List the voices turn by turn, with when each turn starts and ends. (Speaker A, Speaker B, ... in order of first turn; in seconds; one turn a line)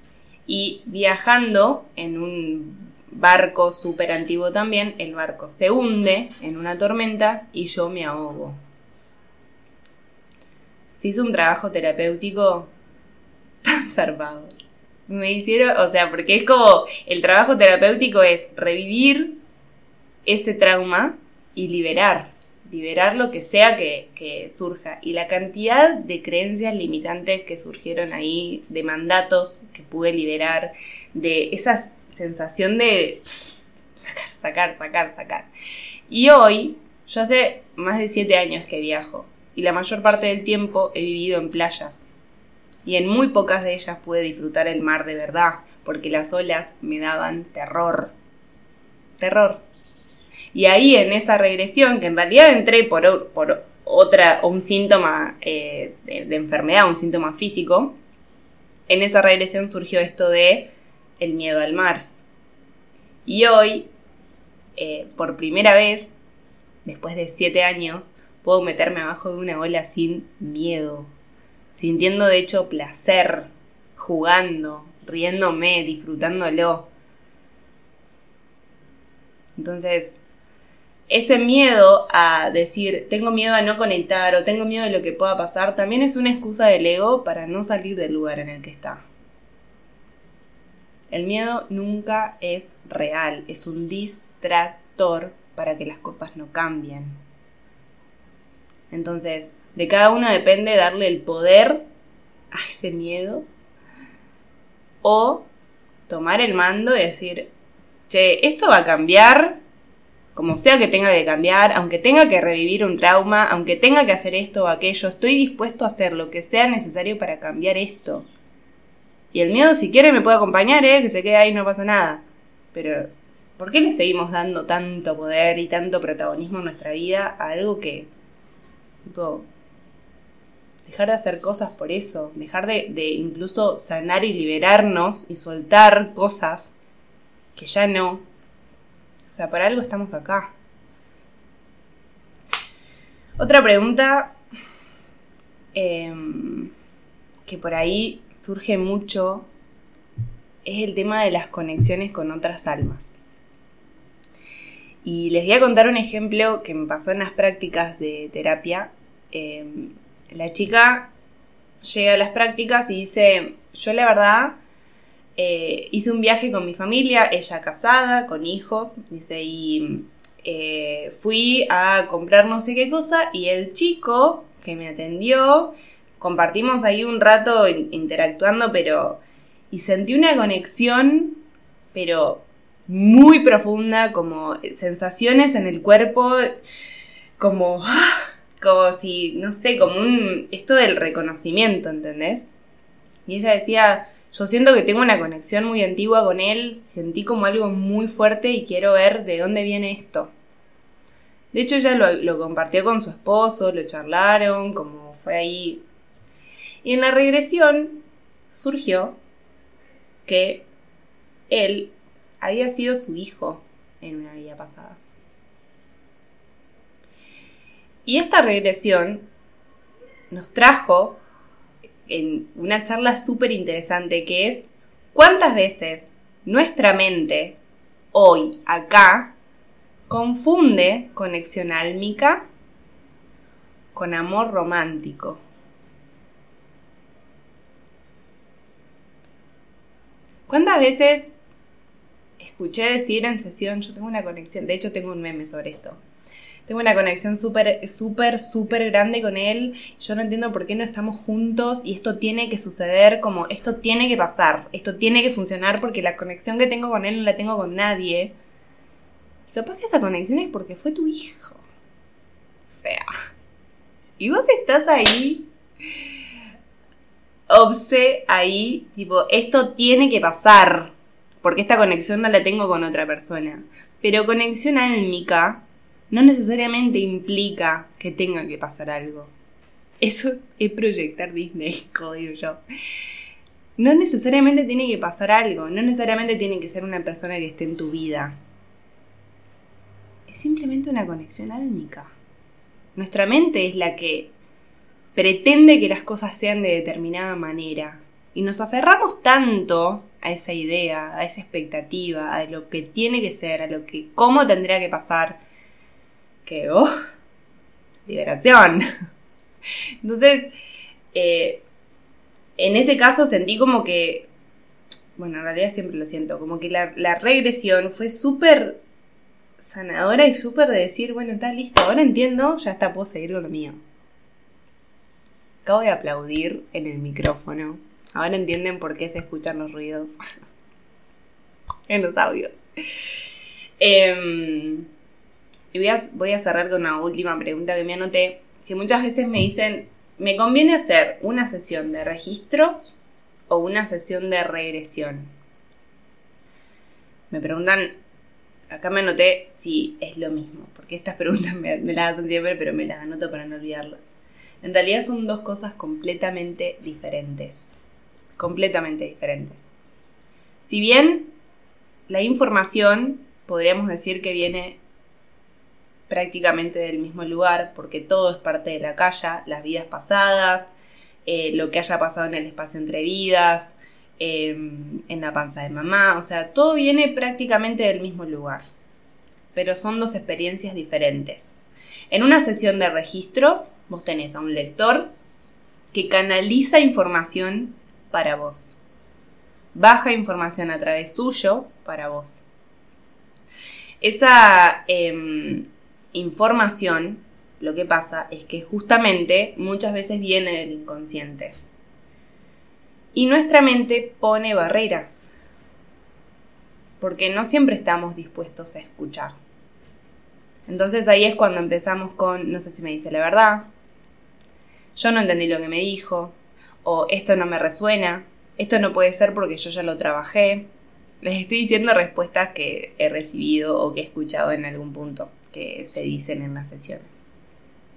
Speaker A: 0.5-8.6
Speaker A: 11.0-12.7
Speaker A: 13.6-14.5
Speaker A: 15.1-19.4
Speaker A: 20.3-35.5
Speaker A: 36.1-42.1
Speaker A: 42.9-48.1
Speaker A: 49.2-49.7
Speaker A: 50.5-58.0
Speaker A: 58.9-62.1
Speaker A: 63.3-63.9
Speaker A: 64.8-66.2
Speaker A: 66.8-71.1
Speaker A: 71.7-76.9
Speaker A: 79.6-80.2
Speaker A: 81.1-89.0
Speaker A: 91.1-97.2
Speaker A: 98.9-101.8
Speaker A: 102.5-103.5
Speaker A: 105.0-105.5
Speaker A: 106.1-107.5
Speaker A: 108.1-109.6
Speaker A: 110.3-118.3
Speaker A: 119.3-128.1
Speaker A: 129.1-129.5
Speaker A: 130.9-136.7
Speaker A: 137.6-138.3
Speaker A: 139.3-140.5
Speaker A: 143.4-144.4
Speaker A: 145.7-146.7
Speaker A: 147.5-149.5
Speaker A: 150.7-153.2
Speaker A: 155.0-161.1
Speaker A: 161.8-164.6
Speaker A: 165.4-181.4
Speaker A: 181.9-186.4
Speaker A: 187.4-192.5
Speaker A: 193.3-200.3
Speaker A: 201.5-205.8
Speaker A: 206.8-209.2
Speaker A: 210.2-210.7
Speaker A: 211.5-215.0
Speaker A: 218.1-219.3
Speaker A: 220.3-221.2
Speaker A: 222.1-227.6
Speaker A: 228.1-229.4
Speaker A: 230.1-232.5
Speaker A: 233.9-235.4
Speaker A: 240.5-241.3
Speaker A: 242.4-246.0
Speaker A: 246.7-258.3
Speaker A: 259.5-261.6
Speaker A: 262.7-263.1
Speaker A: 264.2-265.5
Speaker A: 267.5-279.3
Speaker A: 280.0-282.6
Speaker A: 283.8-288.4
Speaker A: 290.3-292.1
Speaker A: 292.9-294.3
Speaker A: 295.1-305.4
Speaker A: 306.4-306.9
Speaker A: 308.1-308.9
Speaker A: 310.0-310.5
Speaker A: 311.1-311.6
Speaker A: 312.6-314.3
Speaker A: 315.2-318.8
Speaker A: 319.6-323.8
Speaker A: 325.6-330.2
Speaker A: 331.9-332.6
Speaker A: 333.8-334.9
Speaker A: 335.7-342.9
Speaker A: 343.5-345.3
Speaker A: 347.3-347.9
Speaker A: 348.7-357.8
Speaker A: 358.4-359.7
Speaker A: 360.6-361.3
Speaker A: 362.1-364.8
Speaker A: 366.1-370.8
Speaker A: 371.3-378.7
Speaker A: 379.6-385.1
Speaker A: 385.9-388.8
Speaker A: 389.7-392.5
Speaker A: 394.0-401.6
Speaker A: 403.1-405.3
Speaker A: 407.0-409.4
Speaker A: 410.7-413.7
Speaker A: 415.0-420.7
Speaker A: 421.2-427.2